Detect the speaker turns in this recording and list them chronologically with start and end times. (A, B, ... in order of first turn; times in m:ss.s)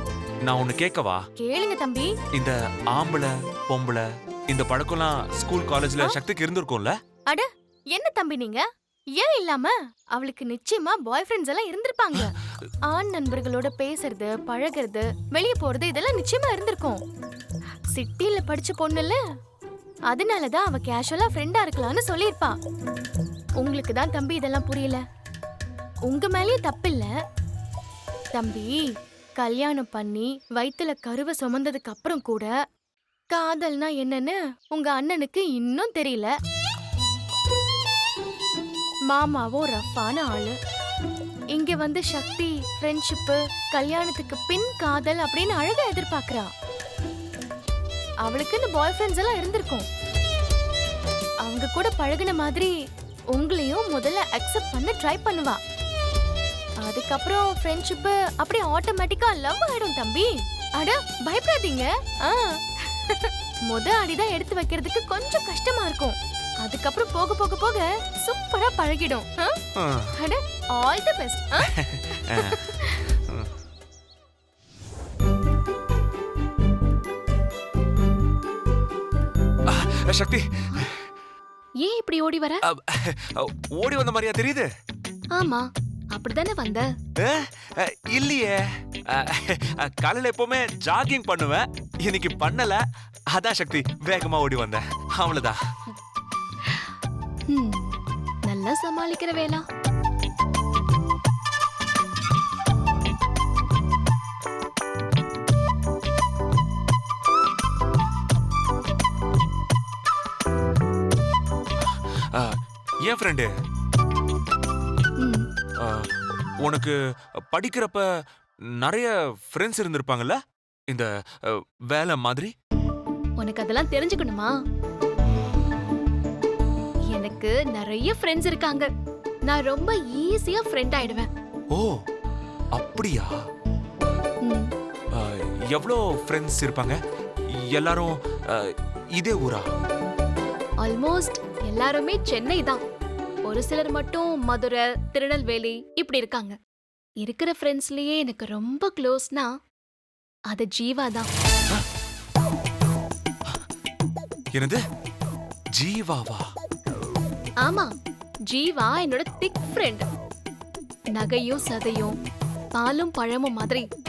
0:00.4-0:01.2 A
0:01.4-0:02.1 B
0:02.3-0:06.9 A
0:07.3-0:08.6 B
0:09.2-0:12.3 B
0:12.9-0:17.0 B
0:17.9-0:19.2 B
0:20.1-0:22.6 B
0:23.6-0:25.0 B
0:26.1-0:27.1 B
0:28.3-0:28.8 B
0:29.4-0:32.5 B
0:33.3-0:36.3 B
0:39.1-0:40.5 B
0:41.5-0:46.5 B
0:48.2-0:49.9 B
0:51.4-0:52.7 B
0:53.3-0:55.6 B
0:56.8-1:09.5 B
1:09.8-1:10.2 A
1:10.2-1:11.7 B
1:11.7-1:13.5 A
1:12.3-1:13.0 B
1:19.7-1:21.0 A
1:21.8-1:22.6 C
1:22.6-1:24.7 A
1:25.3-1:26.9 C
1:27.2-1:35.6 A
1:36.6-1:36.9 C
1:37.5-1:39.6 C
1:51.8-1:53.5 A
1:55.2-1:55.4 C
1:55.8-1:56.1 A
1:56.6-1:56.9 A
1:57.5-1:58.0 A
1:58.8-2:00.4 A
2:00.9-2:02.5 A
2:03.4-2:04.5 C
2:07.1-2:08.9 C
2:09.5-2:11.3 C
2:12.7-2:13.4 A
2:14.4-2:14.7 C
2:15.1-2:17.0 A
2:17.7-2:19.6 A
2:20.8-2:22.8 C
2:23.4-2:26.6 C
2:27.2-2:29.5 C
2:30.5-2:31.3 C
2:34.5-2:34.8 A
2:35.8-2:36.4 A
2:37.6-2:37.9 C
2:38.5-2:40.1 C
2:41.1-2:42.1 C
2:42.7-2:43.8 C